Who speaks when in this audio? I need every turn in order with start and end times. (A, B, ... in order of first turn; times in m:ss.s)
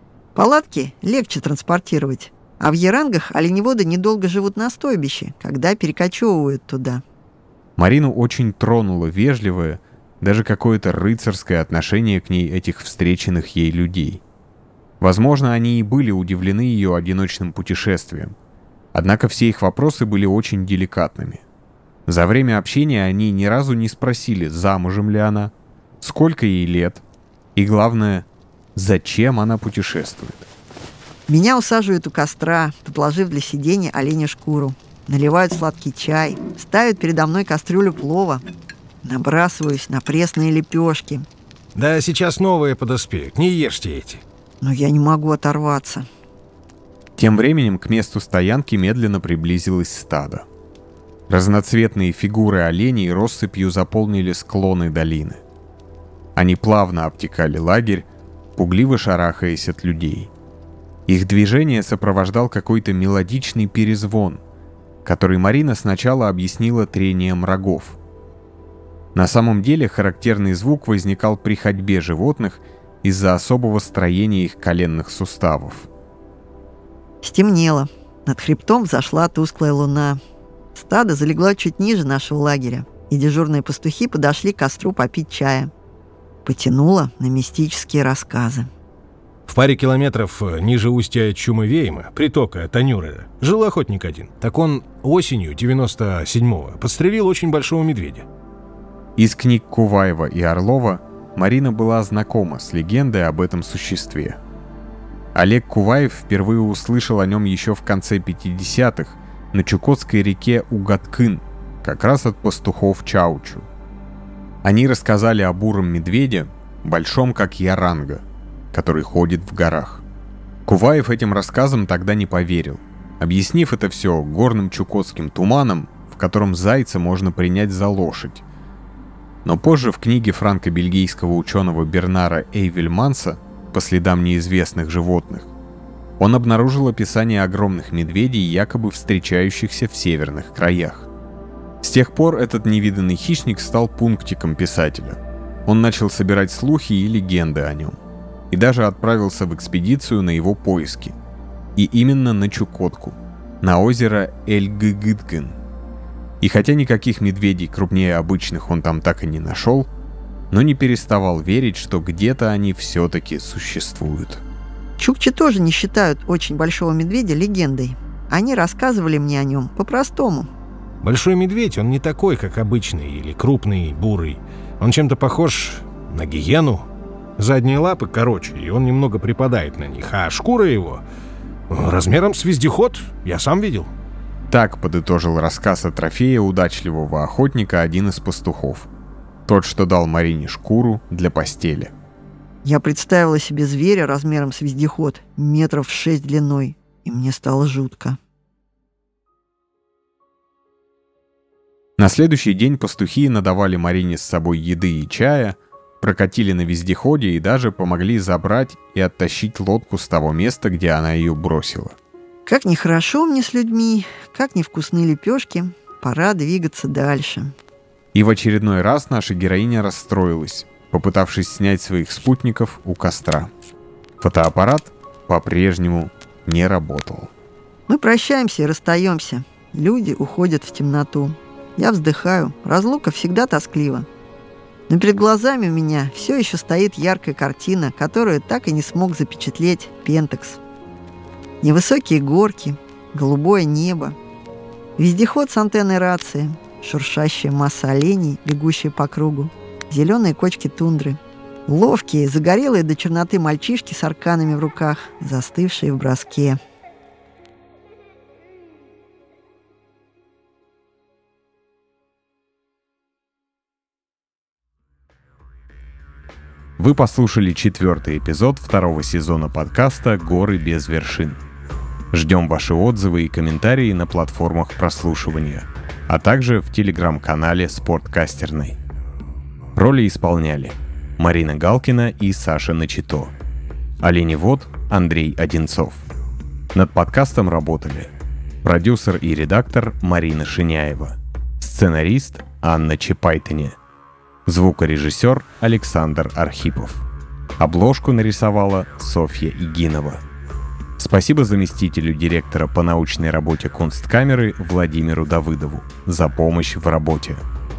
0:00.3-0:07.0 A
0:07.8-0:14.2 B
0:15.0-0:18.4 B
0:18.9-0:21.4 B
0:22.1-0:27.0 B
0:27.6-0:30.5 B
0:31.3-0:38.4 A
0:39.0-0:41.2 A
0:41.7-0:44.2 C
0:44.6-0:46.0 A
0:47.2-0:50.4 B
0:51.3-0:55.4 B
0:56.4-1:00.3 B
1:01.1-1:04.4 B
1:05.0-1:08.0 B
1:09.1-1:15.9 B
1:17.2-1:20.2 A
1:20.7-1:25.7 A
1:26.4-1:28.7 A
1:29.5-1:38.2 C
1:39.2-1:44.4 B
1:45.3-1:53.7 B
1:54.6-2:00.0 B
2:00.6-2:08.4 B
2:09.4-2:15.5 B
2:16.2-2:21.1 B
2:21.8-2:28.0 B
2:28.5-2:31.1 B
2:31.8-2:35.6 B
2:36.4-2:39.9 B
2:40.5-2:44.4 B
2:45.0-2:50.5 A
2:51.0-2:56.8 C
2:57.4-3:01.0 C
3:01.7-3:03.9 C
3:04.5-3:08.9 B
3:09.5-3:11.9 B
3:12.6-3:18.2 A
3:22.0-3:32.0 B
3:32.4-3:37.5 A
3:38.1-3:43.5 B
3:44.2-3:47.3 B
3:47.9-3:54.1 A
3:54.9-4:00.6 A
4:01.6-4:04.2 A
4:05.0-4:16.6 A
4:26.8-4:31.4 B
4:32.1-4:38.8 B
4:39.7-4:43.3 B
4:44.0-4:46.0 B
4:46.7-4:48.1 B
4:48.6-4:53.8 B
4:54.4-4:57.0 B
4:57.6-5:00.2 B
5:01.0-5:07.4 B